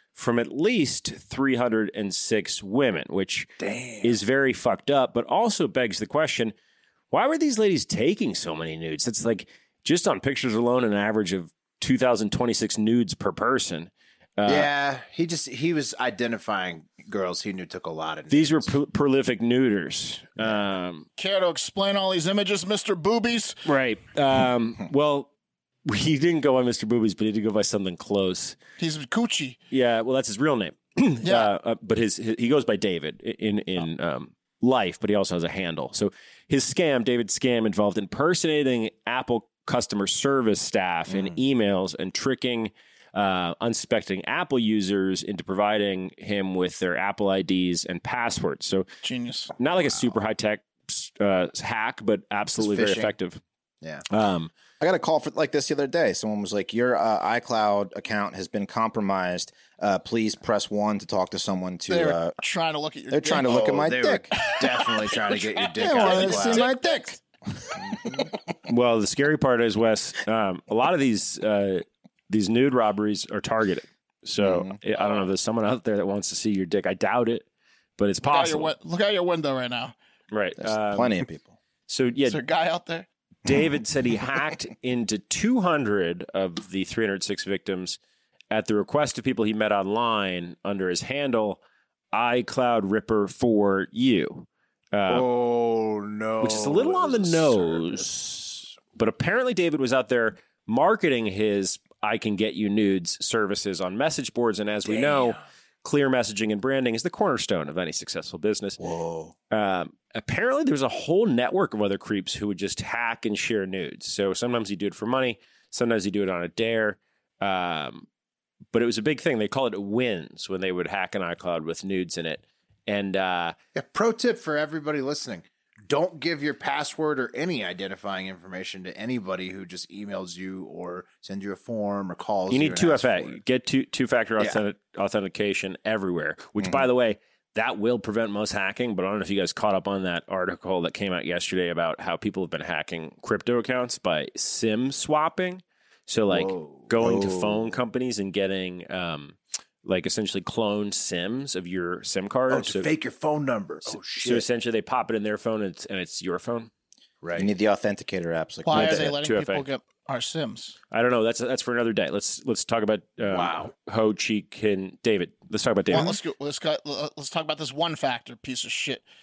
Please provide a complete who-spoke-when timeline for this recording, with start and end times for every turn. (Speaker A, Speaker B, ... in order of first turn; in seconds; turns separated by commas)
Speaker A: 0.1-3.5, Speaker B: 3.6-4.2, Speaker A: 4.0-6.5, Speaker A: 7.1-14.7, Speaker B: 14.5-18.7, Speaker A: 18.3-21.1, Speaker C: 21.2-23.6, Speaker A: 23.7-25.3, Speaker A: 25.9-28.6, Speaker C: 28.8-29.6, Speaker A: 29.7-48.9, Speaker C: 31.2-31.5, Speaker B: 41.1-41.4, Speaker C: 49.0-49.5, Speaker A: 49.6-53.4, Speaker B: 52.6-53.1, Speaker A: 54.1-54.5, Speaker D: 54.8-62.4, Speaker C: 61.9-63.6, Speaker D: 63.1-64.4, Speaker B: 63.5-66.7, Speaker C: 64.3-67.2, Speaker D: 65.8-67.2, Speaker D: 67.8-68.3, Speaker A: 68.7-77.5, Speaker D: 74.4-74.8, Speaker A: 78.0-78.7, Speaker C: 78.3-79.9, Speaker A: 80.3-81.2, Speaker D: 80.6-81.5, Speaker A: 81.9-82.4, Speaker C: 82.3-83.1, Speaker A: 83.5-88.0, Speaker A: 88.5-91.6, Speaker A: 92.1-95.3, Speaker B: 95.1-98.1, Speaker A: 96.4-108.8, Speaker B: 104.8-105.4, Speaker D: 108.8-109.3, Speaker A: 109.5-118.1, Speaker A: 118.7-123.5, Speaker B: 123.8-133.4, Speaker A: 132.5-152.9, Speaker D: 136.6-136.8, Speaker B: 146.3-147.1, Speaker D: 147.0-147.7, Speaker B: 152.5-154.4, Speaker A: 153.9-156.7, Speaker B: 157.2-157.5, Speaker D: 157.4-159.2, Speaker C: 158.6-160.8, Speaker A: 158.7-159.7, Speaker A: 160.9-166.2, Speaker B: 163.3-163.7, Speaker C: 165.9-169.0